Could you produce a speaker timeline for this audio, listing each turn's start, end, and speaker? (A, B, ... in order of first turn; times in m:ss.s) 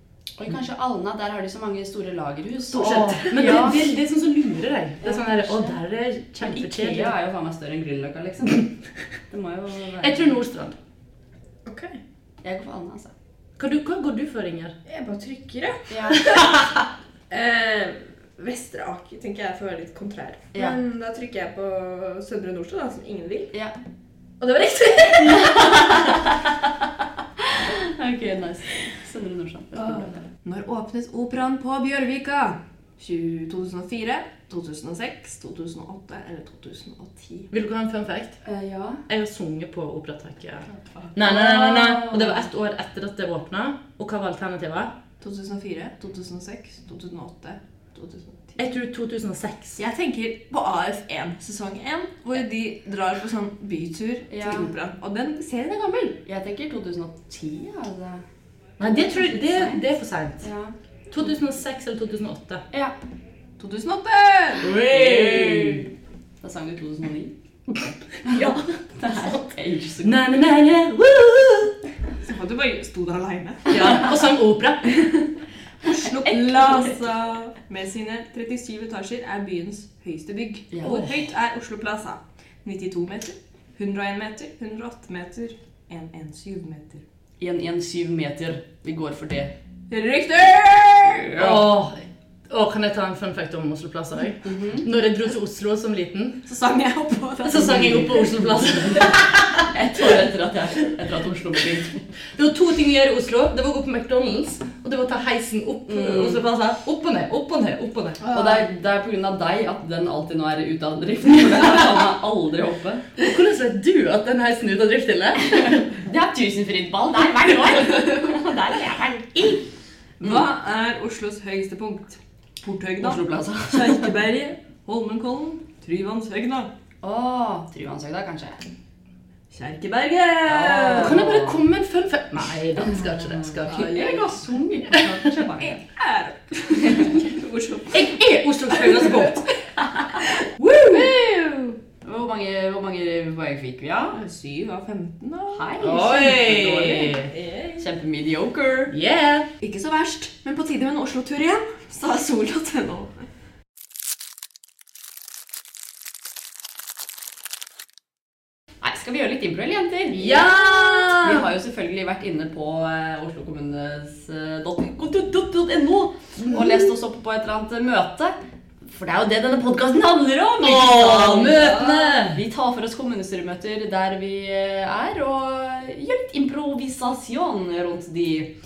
0:00.4-0:03.9 A
0:02.7-0:03.8 B
0:02.8-0:07.1 C
0:05.0-0:05.8 A
0:06.4-0:08.7 A
0:09.3-0:10.3 A
0:10.0-0:10.8 C
0:11.7-0:12.0 B
0:12.4-0:13.1 A
0:13.6-0:14.8 C
0:14.9-0:16.5 B
0:15.9-0:16.3 A
0:16.2-0:16.7 C
0:17.3-0:23.5 B
0:24.4-0:26.2 B
0:25.2-0:26.7 A
0:27.4-0:30.2 A
0:29.8-0:37.5 B
0:37.5-0:38.4 C
0:38.4-0:39.0 A
0:39.1-0:44.9 C
0:41.2-0:42.4 A
0:45.2-0:48.6 B
0:48.6-0:49.8 C
0:49.8-0:56.2 B
0:54.3-0:54.7 A
0:56.3-0:58.2 A
0:58.8-1:00.5 C
0:58.8-0:59.8 A
1:00.4-1:00.7 A
1:01.1-1:02.6 C
1:03.6-1:04.8 B
1:04.6-1:05.9 C
1:04.9-1:05.9 A
1:06.4-1:07.3 A
1:08.2-1:10.2 A
1:08.3-1:09.5 C
1:10.0-1:11.8 C
1:12.2-1:14.2 B
1:13.7-1:15.1 C
1:15.8-1:27.0 B
1:20.7-1:21.1 A
1:27.4-1:29.5 A
1:29.9-1:31.7 B
1:31.4-1:36.4 C
1:34.4-1:34.9 A
1:36.5-1:38.3 B
1:37.4-1:39.7 C
1:37.9-1:38.1 A
1:38.8-1:42.1 A
1:42.3-1:48.2 C
1:45.9-1:46.4 A
1:48.2-1:48.7 B
1:48.3-1:53.1 A
1:53.2-1:55.9 C
1:55.5-1:59.6 A
2:00.2-2:06.7 B
2:03.0-2:04.1 A
2:07.0-2:08.6 A
2:09.5-2:11.3 B
2:10.5-2:11.6 A
2:10.9-2:13.9 C
2:12.9-2:15.8 A
2:13.7-2:14.4 B
2:15.6-2:18.1 B
2:16.9-2:17.2 A
2:17.9-2:19.5 C
2:18.7-2:19.3 B
2:20.2-2:21.8 B
2:20.6-2:21.0 C
2:22.0-2:24.2 A
2:24.1-2:25.7 B
2:25.5-2:28.9 A
2:25.8-2:27.3 C
2:27.3-2:27.8 B
2:28.9-2:29.5 C
2:29.6-2:33.2 B
2:38.8-2:58.5 A
2:40.1-2:41.5 C
2:46.4-2:46.9 C
2:50.6-2:52.4 C
2:51.4-2:51.7 B